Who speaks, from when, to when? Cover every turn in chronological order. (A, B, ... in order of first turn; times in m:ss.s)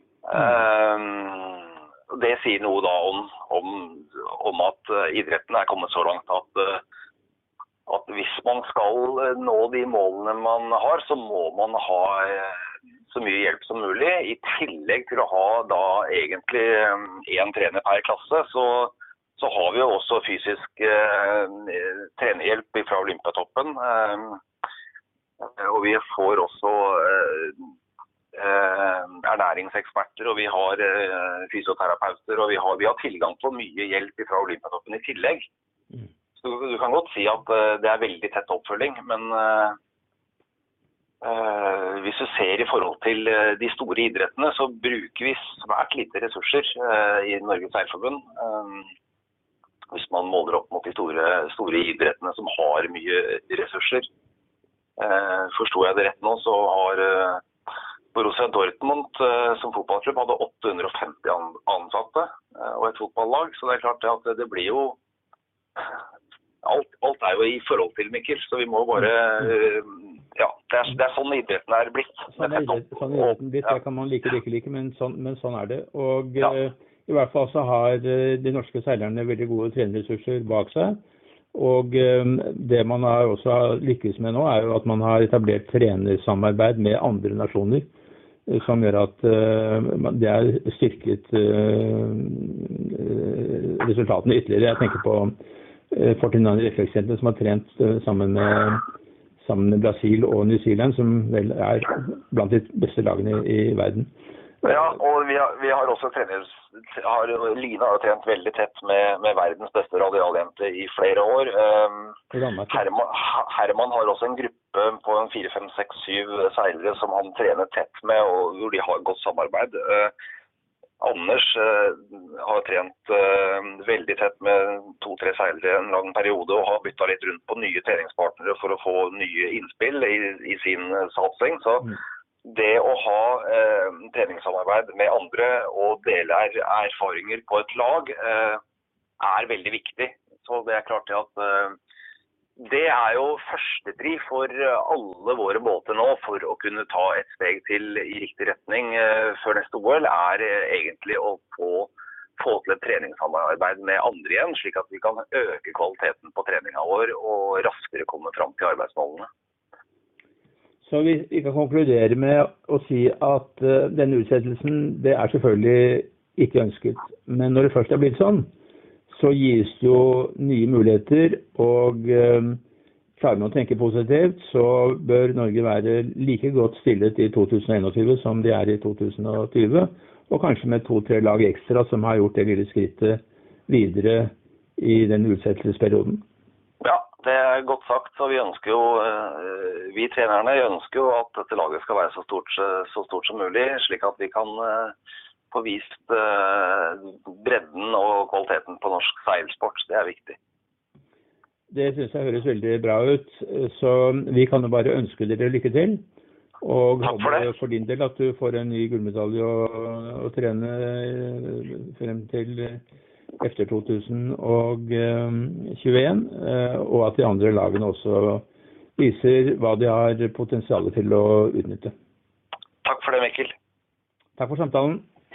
0:00.2-0:06.8 A
0:07.9-0:24.4 A
0:25.4-0:27.7 A
0:28.3-0:35.5 A
0:36.4-0:39.8 A
0:41.2-0:48.9 A
0:49.9-0:54.1 A
0:55.0-0:57.4 A
0:58.1-1:05.0 A
1:06.6-1:13.8 A
1:12.3-1:21.0 B
1:21.5-1:27.9 B
1:28.5-1:35.3 B
1:35.9-1:38.8 B
1:39.4-1:44.1 B
1:44.6-1:52.2 A
1:52.3-1:52.8 B
1:52.7-2:00.1 A
2:01.0-2:18.6 A
2:19.2-2:21.8 A
2:22.6-2:39.3 A
2:40.8-2:48.5 B
2:49.1-2:52.6 B
2:53.2-3:06.2 B
3:06.8-3:14.9 A
3:15.5-3:20.4 A
3:21.7-3:26.0 B
3:26.6-3:32.8 B
3:27.0-3:27.5 A
3:33.4-3:38.4 B
3:39.0-3:41.9 B
3:42.8-3:43.5 A
3:44.4-3:45.0 B